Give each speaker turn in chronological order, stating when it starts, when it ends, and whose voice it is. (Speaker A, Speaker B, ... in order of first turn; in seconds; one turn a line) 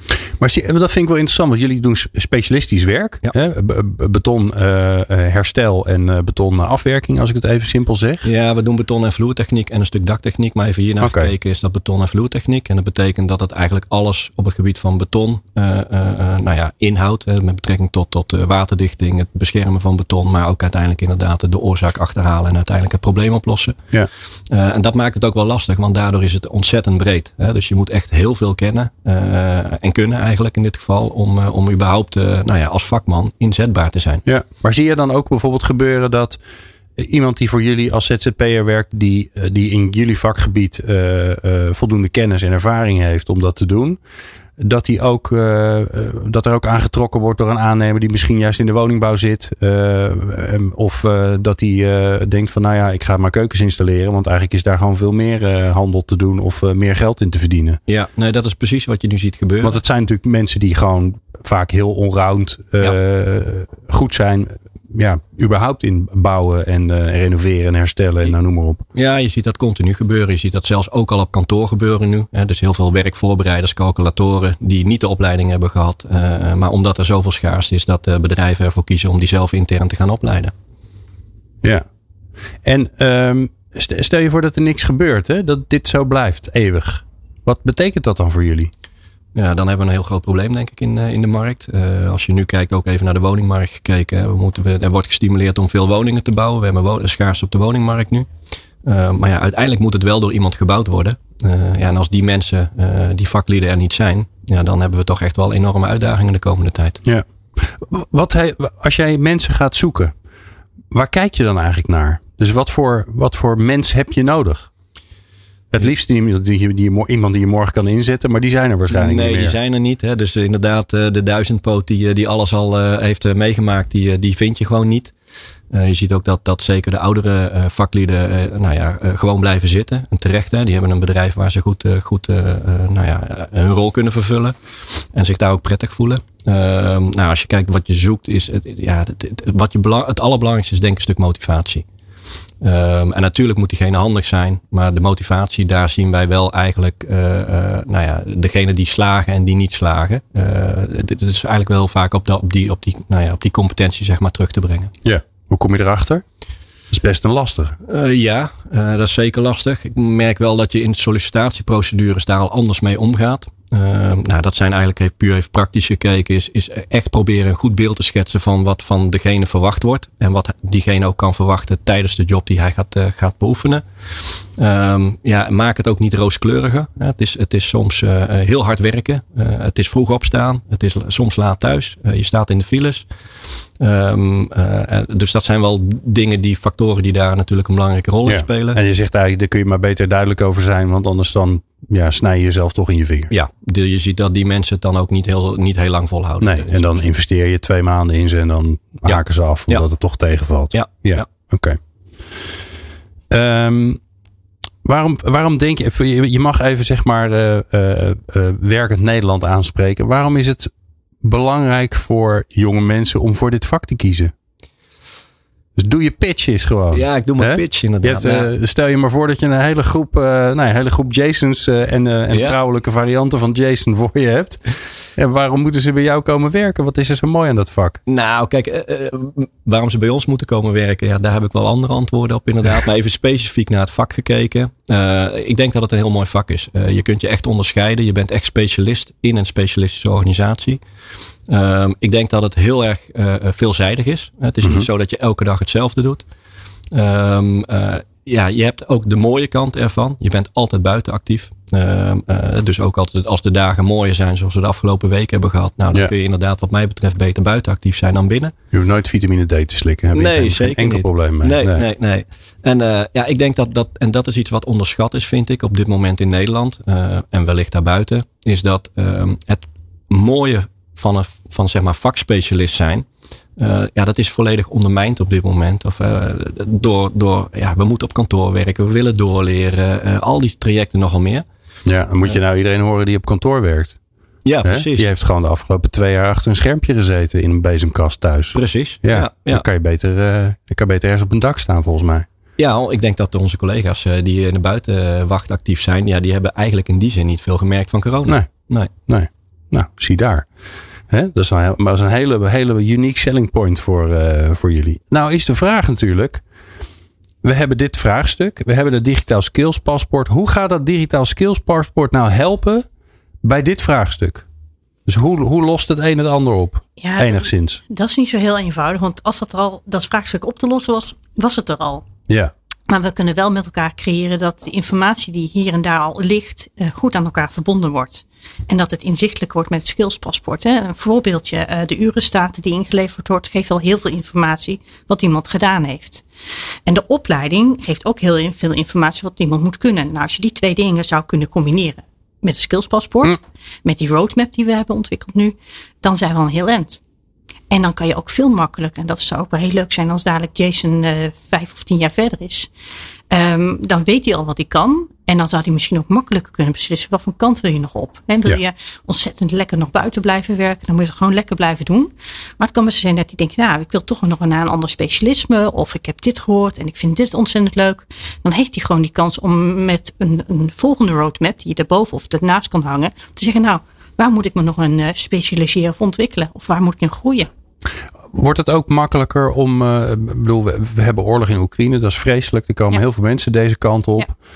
Speaker A: 0.4-8.3
Speaker B: 8.2-23.8
Speaker A: 11.0-11.3
Speaker B: 24.5-34.2
Speaker A: 34.2-36.4
Speaker A: 37.0-44.0
Speaker A: 44.6-57.8
Speaker B: 57.9-59.8
Speaker A: 59.6-68.8
Speaker B: 68.9-80.5
Speaker A: 82.6-88.7
Speaker B: 89.3-98.3
Speaker B: 98.8-107.0
Speaker A: 107.0-110.1
Speaker A: 110.9-114.7
Speaker A: 115.7-119.5
Speaker B: 118.9-125.1
Speaker B: 125.7-134.6
Speaker B: 135.1-141.8
Speaker B: 142.6-154.9
Speaker A: 155.0-156.2
Speaker A: 156.9-157.8
Speaker B: 157.8-183.1
Speaker B: 183.8-188.8
Speaker A: 188.2-193.3
Speaker B: 193.3-197.0
Speaker A: 196.4-201.8
Speaker B: 199.1-199.8
Speaker B: 200.7-201.3
Speaker A: 203.3-204.0
Speaker A: 204.8-210.7
Speaker A: 211.2-214.3
Speaker A: 215.8-228.0
Speaker B: 216.9-218.5
Speaker B: 222.3-222.6
Speaker B: 228.1-240.8
Speaker B: 241.5-246.2
Speaker B: 246.9-258.5
Speaker A: 258.7-261.8
Speaker B: 260.1-281.4
Speaker A: 281.9-284.0
Speaker B: 284.4-285.1
Speaker A: 284.6-292.2
Speaker B: 288.5-289.6
Speaker B: 292.6-298.9
Speaker A: 298.2-298.5
Speaker A: 299.1-300.4
Speaker A: 301.1-306.4
Speaker A: 307.4-312.9
Speaker A: 313.4-314.4
Speaker A: 315.1-317.8
Speaker C: 317.0-322.0
Speaker C: 322.9-336.2
Speaker C: 336.9-347.0
Speaker C: 347.7-352.7
Speaker C: 353.3-377.5
Speaker A: 378.3-384.3